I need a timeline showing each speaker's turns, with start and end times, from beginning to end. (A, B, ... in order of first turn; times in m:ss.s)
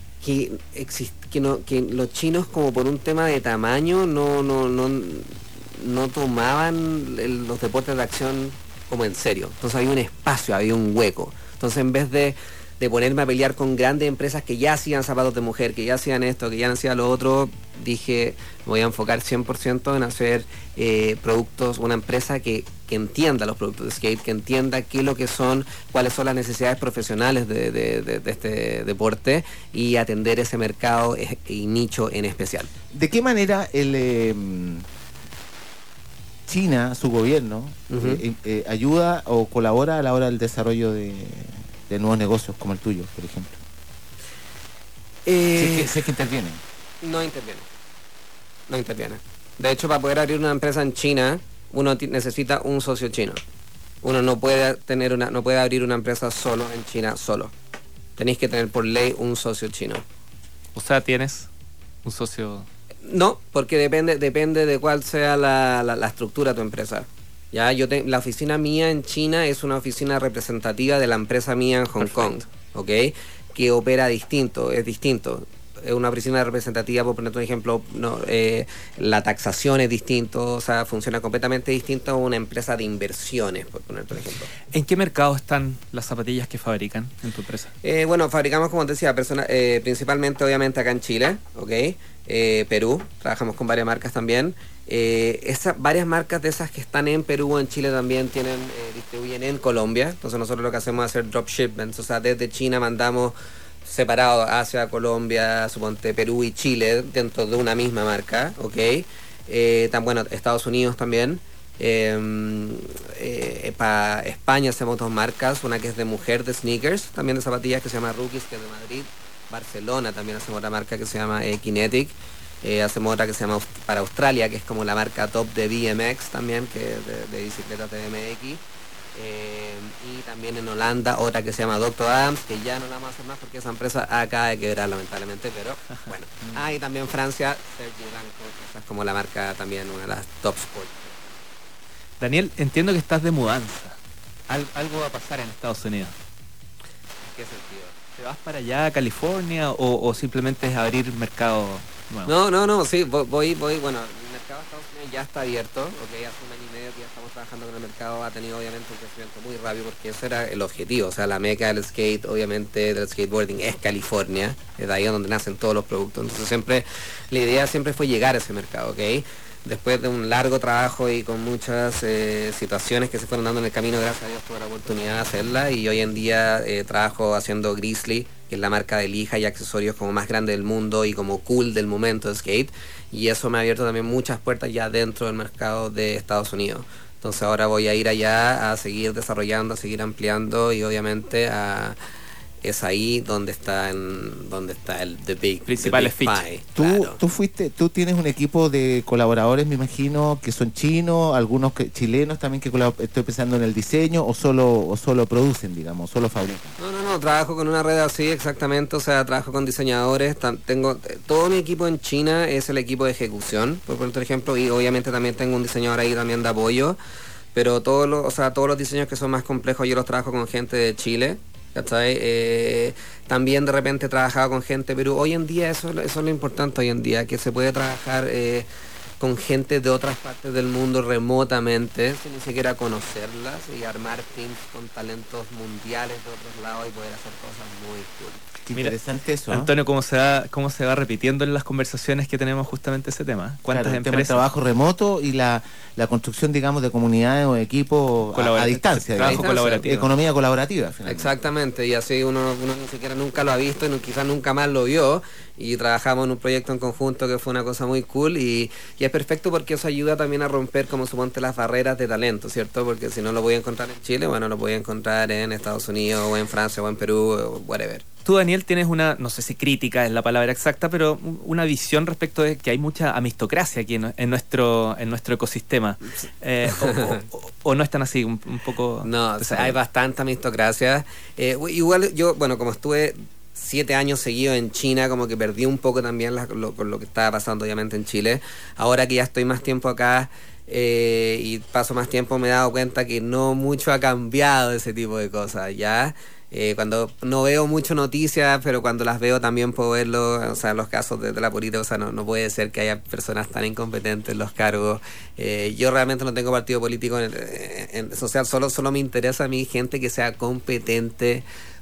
0:00.2-0:32.7 A
0:32.9-0:34.9 B
0:36.5-0:43.6 B
0:37.9-0:38.2 A
0:45.3-0:46.1 A
0:45.6-0:46.6 B
0:47.0-0:47.7 A
0:48.7-0:53.4 A
0:54.0-0:57.5 A
0:58.2-1:00.0 A
1:00.8-1:01.5 C
1:02.0-1:02.7 C
1:03.0-1:24.5 A
1:12.0-1:12.4 C
1:24.7-1:27.7 C
1:27.8-2:08.6 A
2:09.2-2:21.2 A
2:22.2-2:24.0 C
2:24.5-2:26.1 C
2:27.3-2:28.0 A
2:28.2-2:32.3 C
2:32.2-3:12.0 A
3:12.6-3:17.2 A
3:15.7-3:16.4 C
3:16.8-3:26.8 B
3:26.8-3:37.0 A
3:37.5-3:48.7 A
3:49.2-3:58.5 A
3:58.7-3:59.7 B
3:59.5-4:04.4 C
4:03.7-4:11.3 B
4:08.3-4:10.1 C
4:09.2-4:09.8 A
4:11.1-4:28.0 A
4:28.2-4:39.8 C
4:36.7-4:37.2 A
4:39.0-5:11.4 A